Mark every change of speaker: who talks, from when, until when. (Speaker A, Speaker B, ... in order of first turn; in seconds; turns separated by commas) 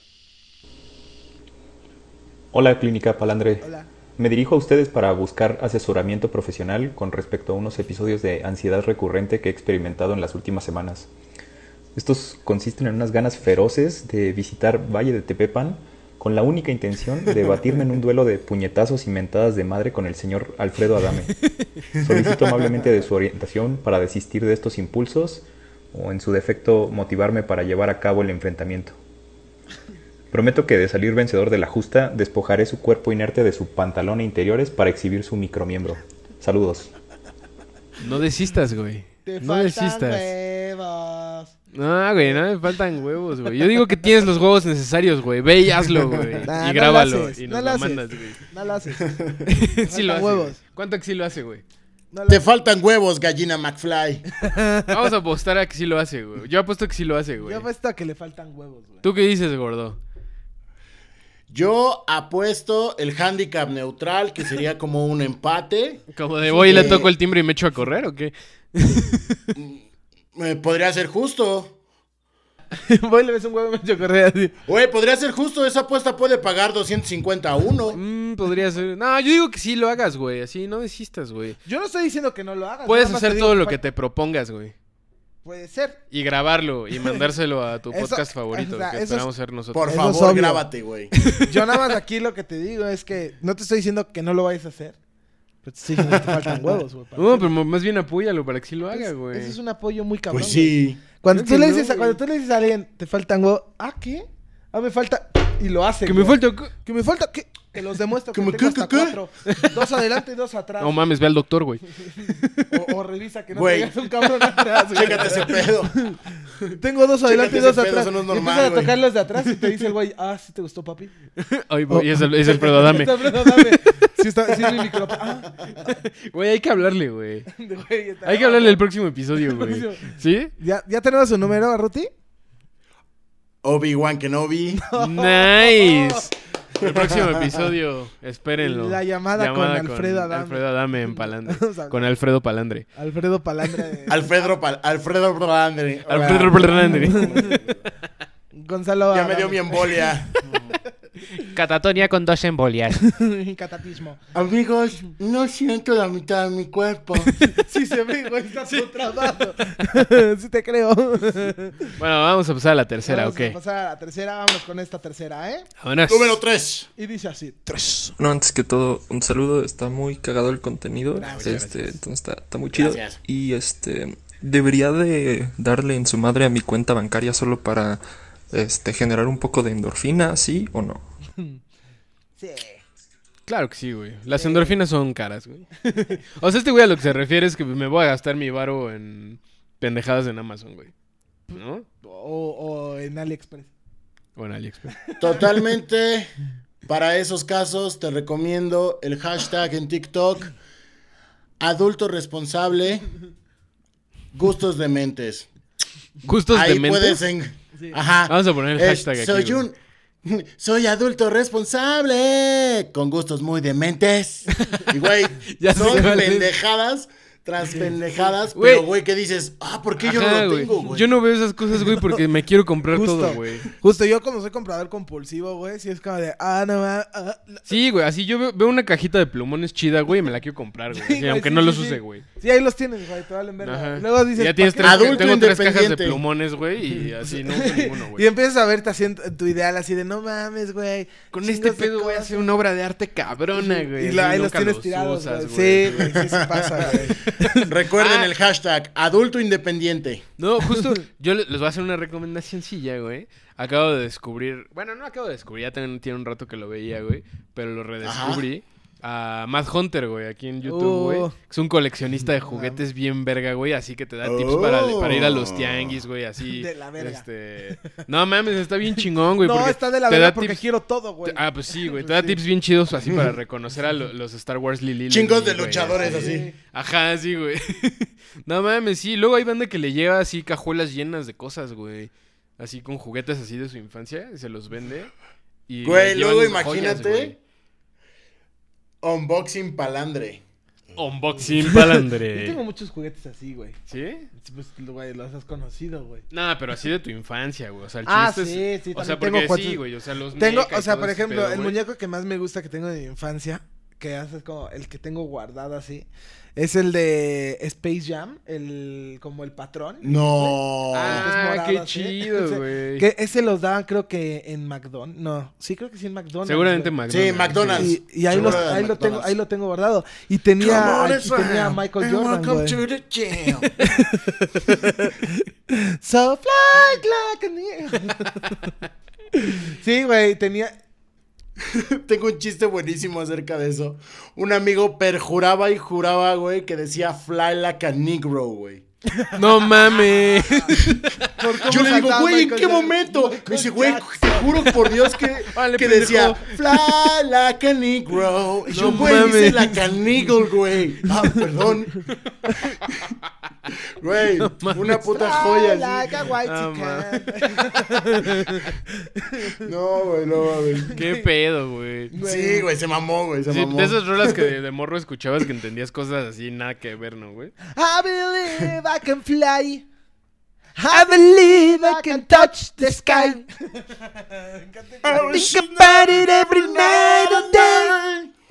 Speaker A: 2.5-11.1, Speaker B: 3.6-3.9, Speaker A: 11.9-21.3, Speaker C: 17.3-17.6, Speaker C: 21.9-22.8, Speaker A: 22.0-28.9, Speaker A: 30.3-36.9, Speaker D: 38.0-40.3, Speaker B: 39.2-41.5, Speaker D: 41.7-48.4, Speaker B: 46.5-50.6, Speaker C: 49.0-49.3, Speaker D: 49.5-51.6, Speaker B: 52.1-52.4, Speaker C: 52.3-54.2, Speaker B: 54.4-54.9, Speaker D: 54.9-57.7, Speaker B: 57.4-59.0, Speaker D: 59.0-60.0, Speaker C: 61.5-66.0, Speaker D: 66.1-69.3, Speaker B: 66.5-67.0, Speaker C: 66.6-67.1, Speaker C: 69.5-71.8, Speaker B: 72.7-74.5, Speaker C: 74.7-78.0, Speaker D: 77.9-81.6, Speaker B: 81.6-83.8, Speaker D: 82.8-84.7, Speaker B: 85.4-86.0, Speaker D: 86.1-90.0, Speaker B: 87.0-87.3, Speaker B: 87.9-89.3, Speaker C: 89.7-91.1, Speaker B: 89.8-90.7, Speaker D: 91.2-91.8, Speaker B: 91.5-95.0, Speaker B: 95.6-97.5, Speaker C: 96.2-96.8, Speaker D: 97.2-99.6, Speaker B: 98.9-111.0, Speaker C: 100.3-101.0, Speaker D: 101.3-102.2, Speaker D: 106.0-106.7, Speaker C: 108.3-109.2, Speaker D: 109.5-109.8, Speaker D: 110.8-112.6, Speaker B: 112.1-116.2, Speaker C: 113.5-114.0, Speaker C: 114.9-115.9, Speaker C: 116.6-119.0, Speaker B: 116.8-121.1, Speaker D: 121.4-125.0, Speaker B: 121.9-125.5, Speaker D: 125.8-127.5, Speaker B: 127.5-128.8, Speaker D: 128.2-130.5, Speaker B: 129.4-132.1, Speaker C: 133.6-134.8, Speaker B: 134.7-136.3, Speaker D: 134.9-142.8, Speaker C: 136.8-137.7, Speaker B: 138.6-142.0, Speaker B: 142.9-144.3, Speaker C: 144.1-147.6, Speaker D: 146.1-147.5, Speaker B: 146.8-147.6, Speaker B: 148.5-150.1, Speaker C: 149.1-150.8, Speaker D: 151.4-153.0, Speaker B: 153.1-154.2, Speaker C: 154.3-157.3, Speaker B: 157.4-162.0, Speaker D: 162.0-163.6, Speaker B: 163.1-165.7, Speaker D: 165.8-166.4, Speaker C: 166.1-166.9, Speaker B: 167.0-168.1, Speaker E: 168.2-181.0, Speaker D: 171.2-172.0, Speaker C: 172.7-173.2, Speaker B: 182.4-182.8, Speaker D: 183.5-190.9, Speaker B: 184.3-184.8, Speaker B: 191.5-193.7, Speaker D: 191.5-191.8, Speaker D: 194.3-195.0, Speaker B: 195.1-195.4, Speaker C: 195.2-196.3, Speaker C: 196.8-200.5, Speaker C: 201.6-203.1, Speaker C: 204.3-205.5, Speaker D: 206.2-207.2, Speaker C: 206.5-221.1, Speaker D: 208.3-209.6, Speaker D: 214.5-216.5, Speaker D: 218.5-218.9, Speaker D: 220.0-223.7, Speaker B: 222.9-227.6, Speaker D: 227.7-232.2, Speaker B: 230.9-235.3, Speaker D: 233.6-238.2, Speaker C: 234.8-236.2, Speaker B: 237.2-242.5, Speaker D: 241.3-246.2, Speaker B: 243.5-247.6, Speaker C: 246.0-247.1, Speaker D: 246.8-248.3, Speaker C: 247.6-250.2, Speaker D: 250.4-270.6, Speaker C: 258.0-258.4, Speaker B: 260.6-261.3, Speaker B: 262.5-262.8, Speaker C: 264.2-266.0, Speaker B: 266.5-267.2, Speaker B: 269.4-272.4, Speaker D: 271.2-285.1, Speaker C: 275.1-276.5, Speaker B: 275.9-276.6, Speaker D: 285.7-287.4, Speaker C: 285.8-287.3, Speaker C: 289.0-290.4, Speaker D: 290.9-292.6, Speaker B: 292.3-293.8, Speaker D: 293.9-294.3, Speaker B: 294.3-296.2, Speaker D: 296.3-301.8, Speaker B: 298.1-299.8, Speaker B: 300.3-316.9, Speaker C: 310.0-311.3, Speaker D: 310.9-313.1, Speaker D: 316.4-318.5, Speaker C: 317.1-319.4, Speaker B: 317.8-322.8, Speaker C: 320.6-323.7, Speaker B: 323.8-328.6, Speaker B: 329.4-330.7, Speaker C: 331.6-338.8, Speaker B: 339.2-344.7, Speaker D: 339.3-341.0, Speaker C: 341.6-352.0, Speaker D: 345.5-346.5, Speaker D: 348.7-349.8, Speaker B: 348.8-349.4, Speaker D: 352.5-352.8, Speaker C: 354.0-356.2, Speaker D: 354.4-355.0, Speaker B: 355.0-358.7, Speaker D: 356.4-358.6, Speaker B: 359.2-359.6, Speaker C: 359.6-361.0, Speaker D: 360.9-362.1, Speaker B: 360.9-361.2, Speaker B: 362.1-362.7, Speaker C: 362.1-364.5, Speaker D: 363.5-367.6, Speaker B: 367.7-369.9, Speaker B: 370.7-376.1, Speaker D: 370.9-373.4, Speaker C: 375.0-378.3, Speaker D: 375.3-377.6